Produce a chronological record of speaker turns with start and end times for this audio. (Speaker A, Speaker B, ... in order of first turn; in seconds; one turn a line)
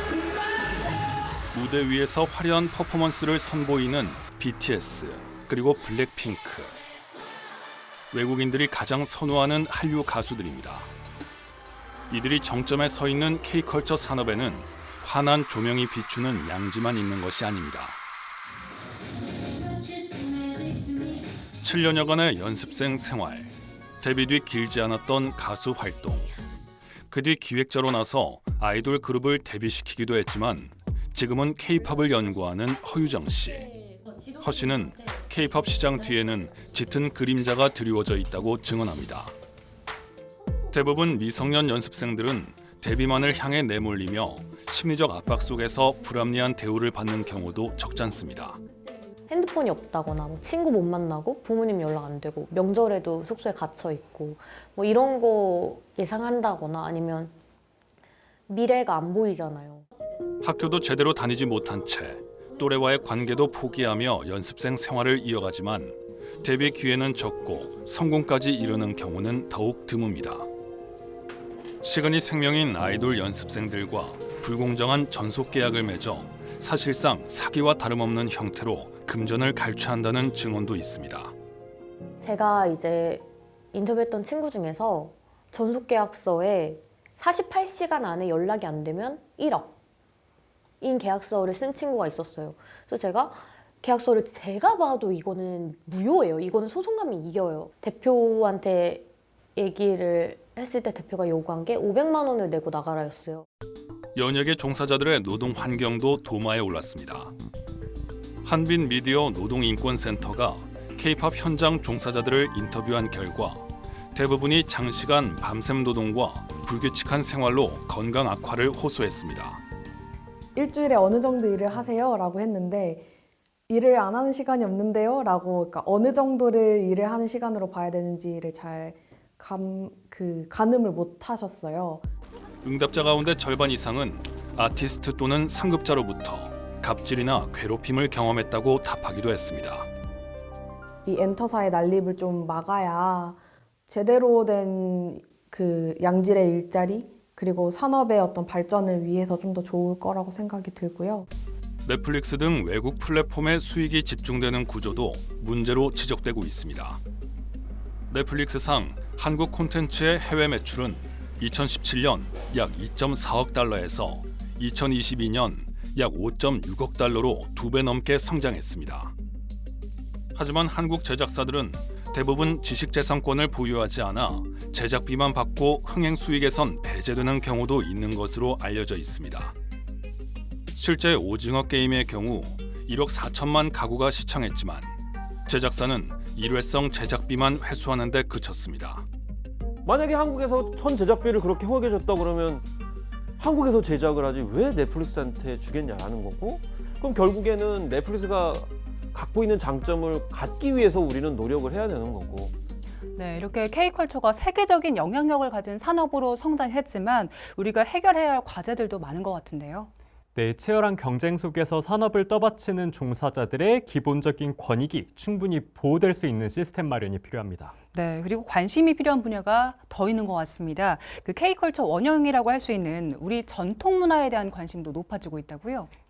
Speaker A: 1.5-6.8
Speaker A: 8.1-10.9
Speaker A: 12.1-18.0
Speaker A: 21.6-26.3
Speaker A: 27.1-33.7
Speaker A: 34.4-39.3
Speaker A: 40.7-48.6
Speaker B: 49.3-57.3
Speaker B: 58.5-59.9
Speaker A: 60.4-70.5
Speaker A: 71.8-81.3
Speaker B: 82.2-89.7
Speaker B: 90.8-99.0
Speaker B: 99.6-103.5
Speaker A: 104.2-107.3
Speaker A: 108.4-119.6
Speaker C: 120.5-123.1
Speaker C: 123.7-132.1
Speaker A: 132.6-139.9
Speaker C: 141.1-151.3
Speaker A: 151.8-157.0
Speaker A: 158.1-169.1
Speaker A: 170.3-179.5
Speaker A: 180.8-184.9
Speaker A: 185.5-189.1
Speaker D: 189.8-192.7
Speaker D: 193.4-202.6
Speaker E: 203.2-209.9
Speaker F: 210.3-217.7
Speaker E: 217.9-225.9